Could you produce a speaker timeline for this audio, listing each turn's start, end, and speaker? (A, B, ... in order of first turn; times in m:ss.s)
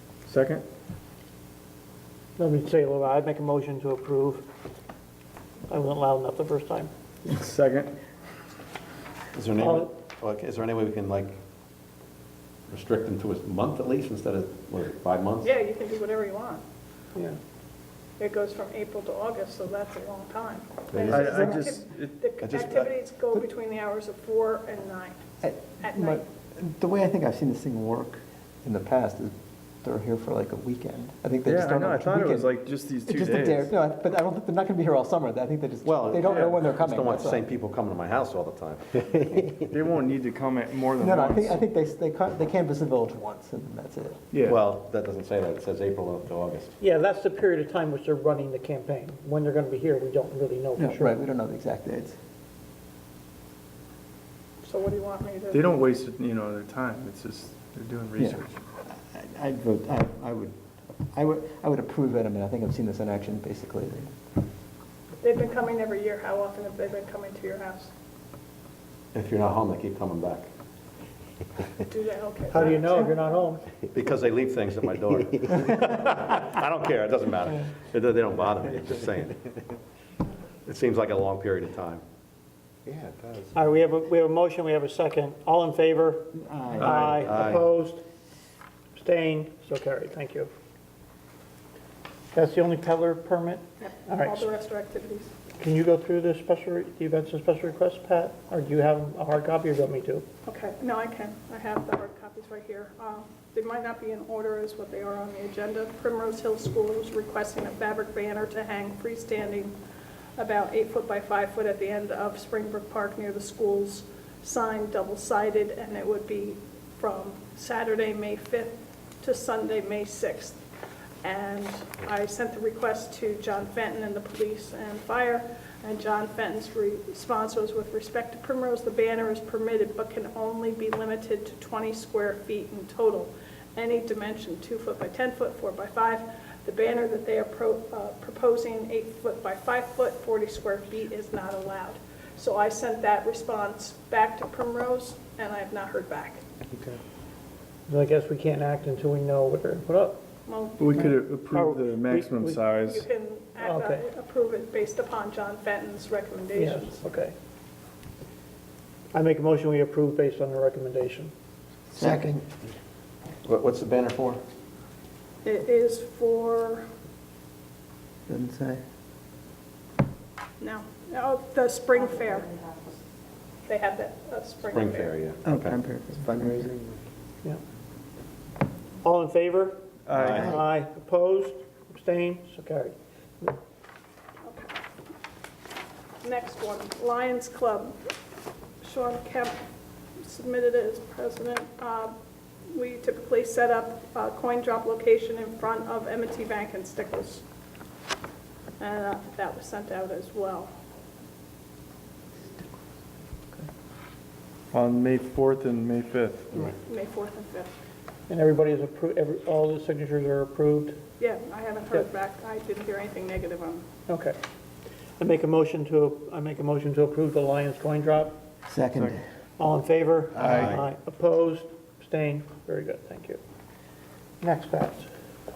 0:00.2-0:00.6 A
0:02.4-0:04.5 B
0:05.7-0:06.9 B
0:07.2-0:07.9 A
0:09.3-0:11.4 C
0:09.6-0:09.9 B
0:12.7-0:15.5 C
0:15.4-0:16.6 D
0:18.2-0:25.2 D
0:20.9-0:21.4 C
0:21.1-0:22.2 A
0:22.4-0:22.9 C
0:25.4-0:37.4 E
0:25.8-0:26.2 D
0:31.4-0:33.7 A
0:35.8-0:39.4 C
0:36.2-0:36.5 A
0:39.6-0:41.6 A
0:41.0-0:44.2 E
0:44.3-0:44.6 A
0:44.4-0:46.7 C
0:46.8-0:51.2 B
0:50.8-0:52.2 E
0:54.6-0:55.8 D
0:55.5-0:58.6 A
0:58.9-1:04.1 E
1:05.2-1:07.9 D
1:09.1-1:10.5 C
1:11.9-1:13.2 D
1:12.5-1:13.6 B
1:13.9-1:19.4 C
1:20.6-1:22.0 C
1:22.9-1:23.5 C
1:23.5-1:28.0 B
1:26.4-1:27.1 E
1:26.9-1:27.6 C
1:28.9-1:30.5 B
1:32.3-1:34.4 B
1:33.8-1:35.3 D
1:35.6-1:40.2 B
1:40.4-1:49.8 D
1:50.4-2:00.6 D
2:01.2-2:26.4 D
2:27.9-2:30.2 B
2:30.5-2:30.9 D
2:30.8-2:33.1 A
2:31.0-2:32.6 B
2:32.9-2:37.0 D
2:33.6-2:34.0 B
2:36.5-2:37.3 B
2:39.1-2:41.3 B
2:41.9-2:42.4 E
2:43.4-2:44.4 C
2:45.4-2:46.9 D
2:48.3-2:48.8 E
2:50.6-2:52.8 D
2:53.6-2:55.1 D
2:54.7-2:55.8 C
2:55.4-2:56.6 E
2:56.4-2:56.7 A
2:59.0-3:03.6 B
3:00.1-3:00.5 A
3:00.2-3:00.5 C
3:04.4-3:04.8 D
3:06.2-3:08.0 D
3:08.8-3:09.6 D
3:10.2-3:12.1 D
3:12.7-3:17.4 D
3:18.8-3:20.7 D
3:24.7-3:26.7 A
3:26.8-3:27.7 D
3:28.3-3:31.0 B
3:31.2-3:33.8 D
3:34.1-3:34.4 B
3:35.2-3:38.4 B
3:38.7-3:39.2 E
3:39.6-3:43.4 B
3:40.4-3:40.8 C
3:44.4-3:45.1 B